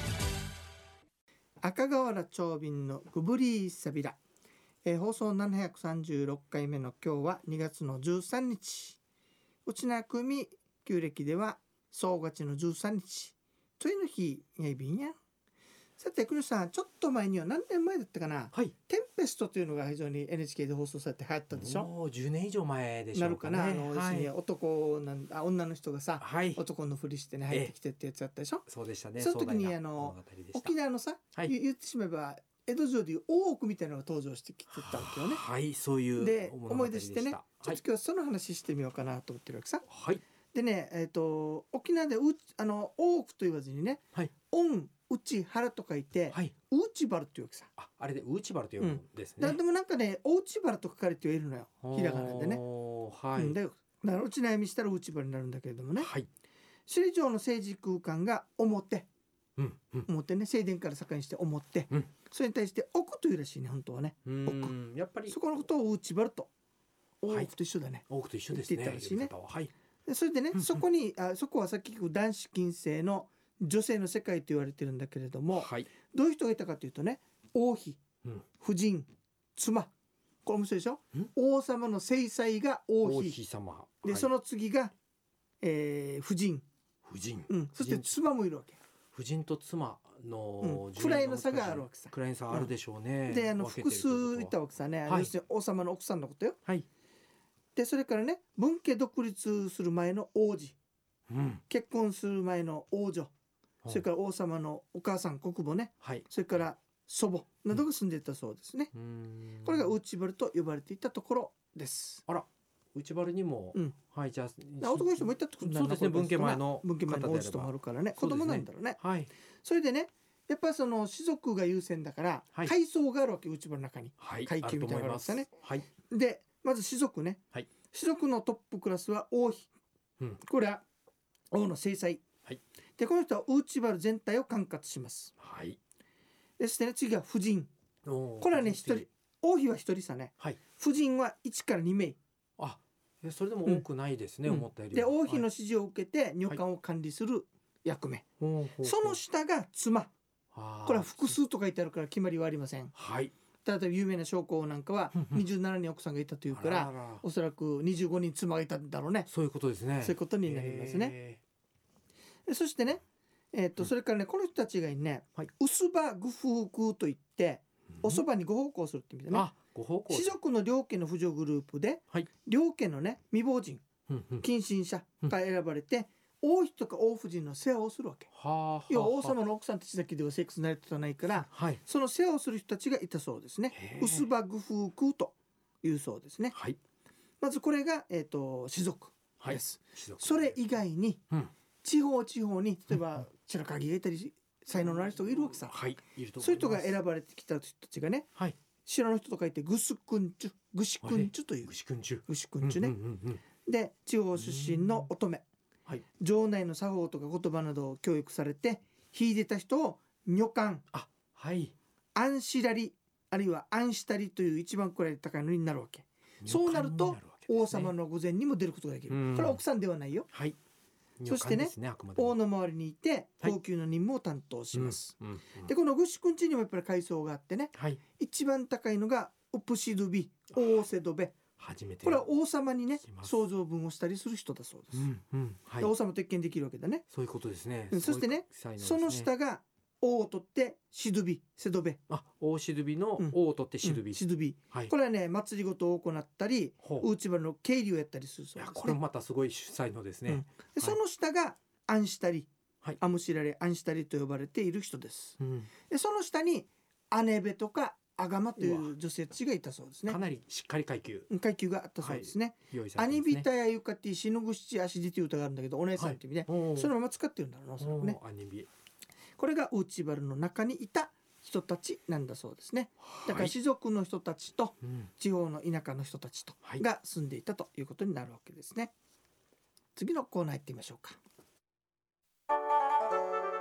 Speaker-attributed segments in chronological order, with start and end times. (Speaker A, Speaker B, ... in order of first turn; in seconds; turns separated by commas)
Speaker A: 1.6-4.2, Speaker A: 4.8-9.0, Speaker A: 9.6-15.1, Speaker A: 16.0-21.9, Speaker B: 21.5-24.3, Speaker A: 23.1-28.6, Speaker B: 26.2-26.6, Speaker B: 28.7-30.7, Speaker A: 29.2-35.4, Speaker B: 34.7-37.8, Speaker A: 36.2-39.9, Speaker B: 39.9-40.2, Speaker A: 40.5-47.7, Speaker B: 47.8-49.6, Speaker A: 48.8-52.6, Speaker B: 51.8-53.5, Speaker A: 53.3-56.1, Speaker B: 56.0-56.3, Speaker A: 56.9-59.1, Speaker B: 59.6-60.1, Speaker A: 60.0-64.7, Speaker B: 64.2-65.4, Speaker A: 65.3-66.5, Speaker A: 67.2-69.3, Speaker B: 68.1-69.7, Speaker A: 70.0-78.0, Speaker B: 70.5-70.8, Speaker B: 75.5-75.9, Speaker A: 78.6-79.9, Speaker A: 80.4-83.4, Speaker B: 83.0-84.3, Speaker A: 84.0-84.9, Speaker A: 85.6-86.6, Speaker B: 87.0-88.2, Speaker A: 87.5-88.8, Speaker B: 89.1-94.5, Speaker A: 90.6-92.7, Speaker A: 93.3-96.6, Speaker B: 95.0-95.3, Speaker A: 97.7-100.8, Speaker B: 101.3-101.6, Speaker A: 101.7-103.3, Speaker A: 103.9-108.9, Speaker B: 108.9-110.0, Speaker A: 109.6-112.2, Speaker B: 112.3-119.3, Speaker A: 114.8-119.0, Speaker A: 119.6-125.5, Speaker B: 124.2-125.9, Speaker A: 126.0-129.7, Speaker A: 130.4-130.8, Speaker A: 131.5-132.2, Speaker A: 133.0-135.3, Speaker B: 135.4-135.8, Speaker A: 136.6-137.7, Speaker B: 138.0-139.1, Speaker A: 138.4-142.2, Speaker B: 142.6-145.4, Speaker A: 144.4-148.2, Speaker B: 148.4-149.2, Speaker A: 148.8-150.1, Speaker B: 150.5-151.4, Speaker A: 150.8-152.9, Speaker B: 152.9-153.3, Speaker A: 153.6-159.3, Speaker B: 155.1-155.4, Speaker B: 156.5-157.2, Speaker B: 159.3-161.4, Speaker A: 160.0-161.1, Speaker A: 162.5-169.5, Speaker B: 169.3-170.3, Speaker A: 170.1-173.8, Speaker B: 174.1-174.4, Speaker A: 174.4-178.3, Speaker B: 178.3-179.3, Speaker A: 178.9-186.6, Speaker B: 181.5-181.8, Speaker B: 183.7-184.3, Speaker B: 186.5-186.8, Speaker A: 187.4-191.2, Speaker B: 189.4-190.6, Speaker A: 191.8-195.8, Speaker B: 195.7-196.9, Speaker A: 196.4-198.3, Speaker A: 198.8-201.7, Speaker B: 201.0-203.4, Speaker A: 202.3-202.9, Speaker A: 203.6-205.4, Speaker B: 204.3-205.1, Speaker A: 206.2-210.8, Speaker B: 210.9-211.7, Speaker A: 212.1-220.3, Speaker B: 216.4-217.9, Speaker B: 219.1-219.6, Speaker B: 220.3-220.6, Speaker B: 221.2-222.4, Speaker A: 221.3-231.4, Speaker B: 224.7-225.7, Speaker B: 227.7-228.0, Speaker B: 231.6-232.2, Speaker A: 232.0-235.1, Speaker B: 233.0-233.3, Speaker B: 234.9-235.9, Speaker A: 235.8-237.1, Speaker B: 237.1-239.3, Speaker A: 237.9-242.0, Speaker B: 242.1-244.9, Speaker A: 243.2-249.0, Speaker B: 246.8-247.1, Speaker B: 248.6-251.0, Speaker A: 250.3-260.2, Speaker B: 255.4-255.7, Speaker B: 258.6-258.9, Speaker B: 260.1-261.3, Speaker A: 261.3-268.2, Speaker B: 262.0-263.4, Speaker B: 266.0-266.9, Speaker B: 267.8-268.7, Speaker A: 269.4-278.9, Speaker B: 273.0-273.5, Speaker B: 274.8-275.1, Speaker A: 279.9-281.2